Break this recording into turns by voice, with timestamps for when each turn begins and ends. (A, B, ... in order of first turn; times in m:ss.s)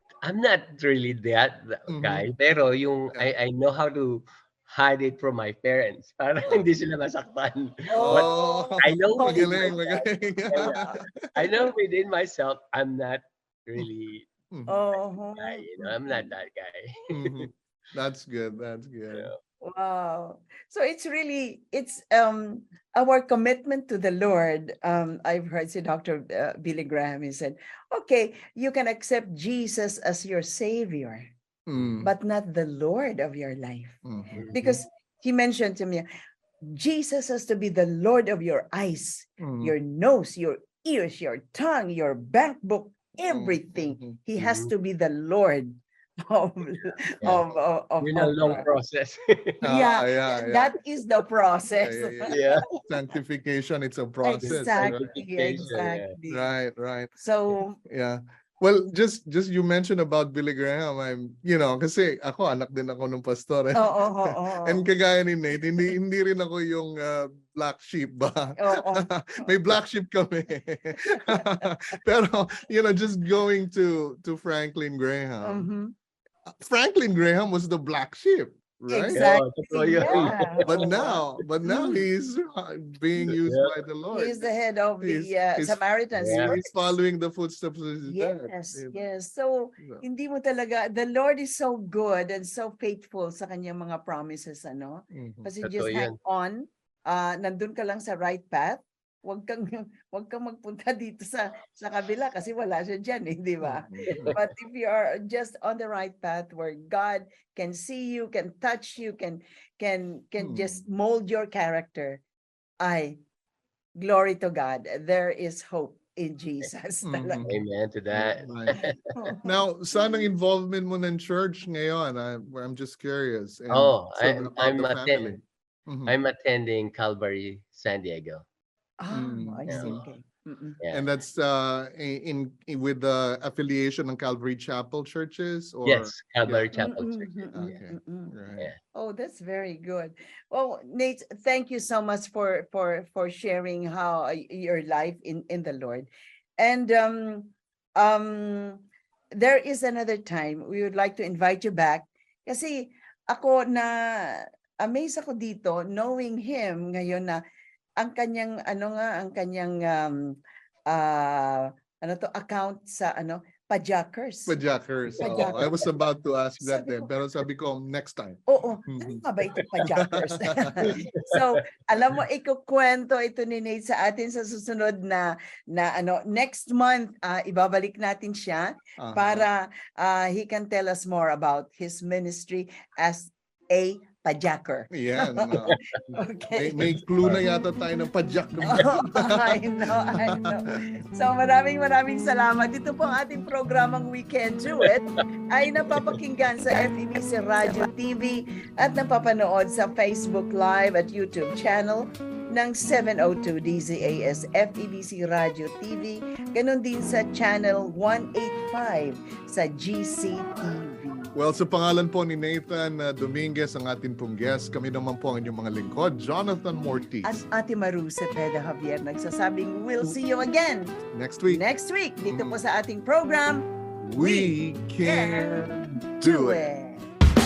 0:00.2-0:14.3 A
0:01.9-0:02.3 B
0:07.9-0:09.8 C
0:08.0-0:11.5 B
0:10.6-0:11.0 C
0:14.5-0:14.8 B
0:14.7-0:16.3 C
0:15.4-0:17.5 A
0:17.1-0:19.3 B
0:19.6-0:31.3 C
0:31.7-0:32.1 B
0:32.0-0:34.0 C
0:34.0-0:34.8 B
0:34.5-0:36.0 C
0:36.6-0:48.7 C
0:39.4-0:39.7 B
0:43.3-0:44.2 B
0:44.4-0:44.7 A
0:48.0-0:49.6 A
0:49.6-0:50.7 B
0:49.6-0:52.4 C
0:51.8-0:55.0 B
0:52.3-0:52.6 A
0:54.2-0:56.5 C
0:54.4-0:56.1 A
0:55.6-0:57.1 B
0:57.2-0:57.8 C
0:57.8-1:15.7 B
1:03.7-1:04.9 C
1:08.6-1:09.5 C
1:11.0-1:11.6 C
1:15.4-1:15.9 C
1:16.5-1:19.2 B
1:18.9-1:22.0 C
1:19.1-1:21.0 A
1:20.0-1:24.5 B
1:23.3-1:23.7 A
1:24.1-1:27.0 C
1:25.0-1:29.0 B
1:26.2-1:26.5 A
1:28.0-1:52.2 C
1:35.1-1:35.5 B
1:35.6-1:36.2 A
1:43.6-1:44.4 B
1:44.1-1:44.4 A
1:50.4-1:50.8 B
1:52.8-1:53.2 C
1:54.0-1:57.5 C
1:57.0-1:57.6 B
1:57.4-1:59.1 A
1:58.1-1:58.8 B
1:58.8-2:00.2 C
1:59.4-2:06.1 B
2:03.7-2:05.4 A
2:06.0-2:08.4 A
2:09.0-2:10.8 C
2:09.1-2:10.0 B
2:09.7-2:10.0 A
2:10.8-2:11.0 A
2:10.9-2:16.9 B
2:15.8-2:17.7 A
2:16.8-2:18.3 C
2:17.5-2:18.7 B
2:18.9-2:37.4 C
2:38.0-2:40.4 C
2:40.9-2:44.6 C
2:44.5-2:49.2 B
2:45.2-2:45.8 C
2:46.6-2:47.1 C
2:48.5-3:07.0 C
2:49.8-2:51.0 B
2:51.2-2:51.4 A
2:59.0-2:59.4 B
3:04.9-3:05.8 B
3:06.6-3:10.5 B
3:08.6-3:31.3 C
3:31.3-3:37.4 B
3:37.2-3:40.9 C
3:41.1-3:41.6 B
3:41.5-3:45.5 C
3:42.2-3:42.6 B
3:44.0-3:46.7 B
3:46.2-3:47.1 C